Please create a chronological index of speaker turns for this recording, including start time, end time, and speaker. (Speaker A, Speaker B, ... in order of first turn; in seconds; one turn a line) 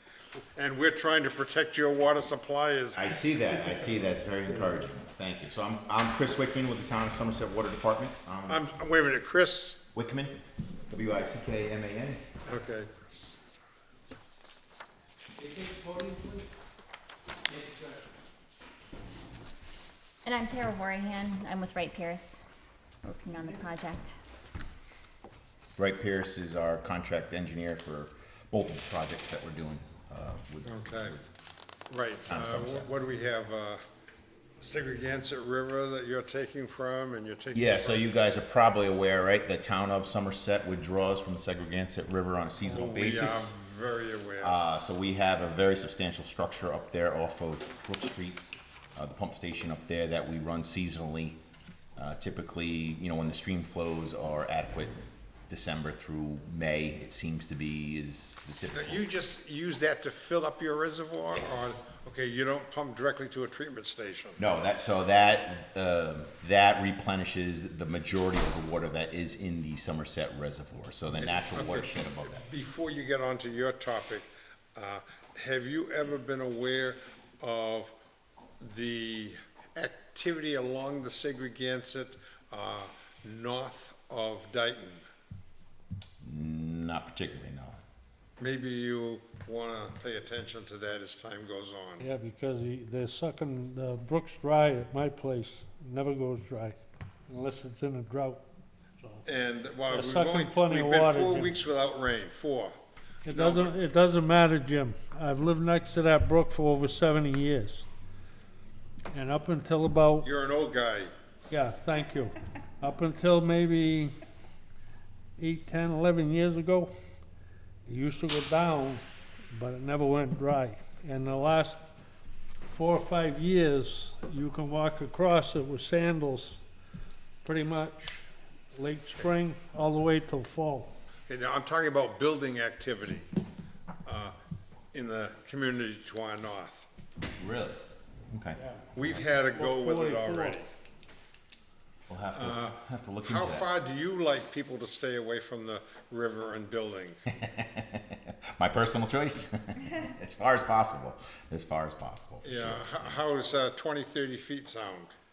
Speaker A: 0.6-3.1
Speaker B: 2.9-8.6
Speaker A: 8.5-9.8
Speaker B: 9.9-10.4
Speaker B: 10.9-12.2
Speaker A: 12.4-13.4
Speaker C: 15.4-16.5
Speaker C: 17.5-18.0
Speaker D: 20.2-22.4
Speaker D: 23.0-24.1
Speaker B: 25.8-31.2
Speaker A: 30.6-31.2
Speaker A: 31.9-33.8
Speaker B: 32.3-32.9
Speaker A: 34.6-38.0
Speaker B: 37.5-43.5
Speaker A: 42.6-44.6
Speaker B: 44.4-48.4
Speaker B: 49.0-51.4
Speaker B: 52.0-55.0
Speaker B: 55.5-59.0
Speaker A: 58.6-64.4
Speaker B: 61.3-61.8
Speaker B: 64.4-72.5
Speaker A: 71.1-77.9
Speaker A: 78.6-85.0
Speaker B: 86.2-87.8
Speaker A: 88.4-92.1
Speaker C: 92.0-98.4
Speaker C: 99.0-99.2
Speaker A: 99.2-102.7
Speaker C: 99.9-101.6
Speaker C: 103.2-107.9
Speaker A: 103.3-103.7
Speaker C: 109.1-110.3
Speaker A: 110.2-111.1
Speaker C: 111.5-114.1
Speaker C: 115.4-116.9
Speaker C: 117.8-121.8
Speaker C: 122.7-126.6
Speaker C: 127.4-130.9
Speaker A: 131.3-133.3
Speaker A: 134.0-134.3
Speaker A: 134.9-136.9
Speaker B: 137.4-138.6
Speaker C: 138.6-140.6
Speaker A: 138.9-140.7
Speaker B: 142.1-143.7
Speaker A: 142.3-147.2
Speaker B: 147.3-153.2
Speaker A: 152.4-155.1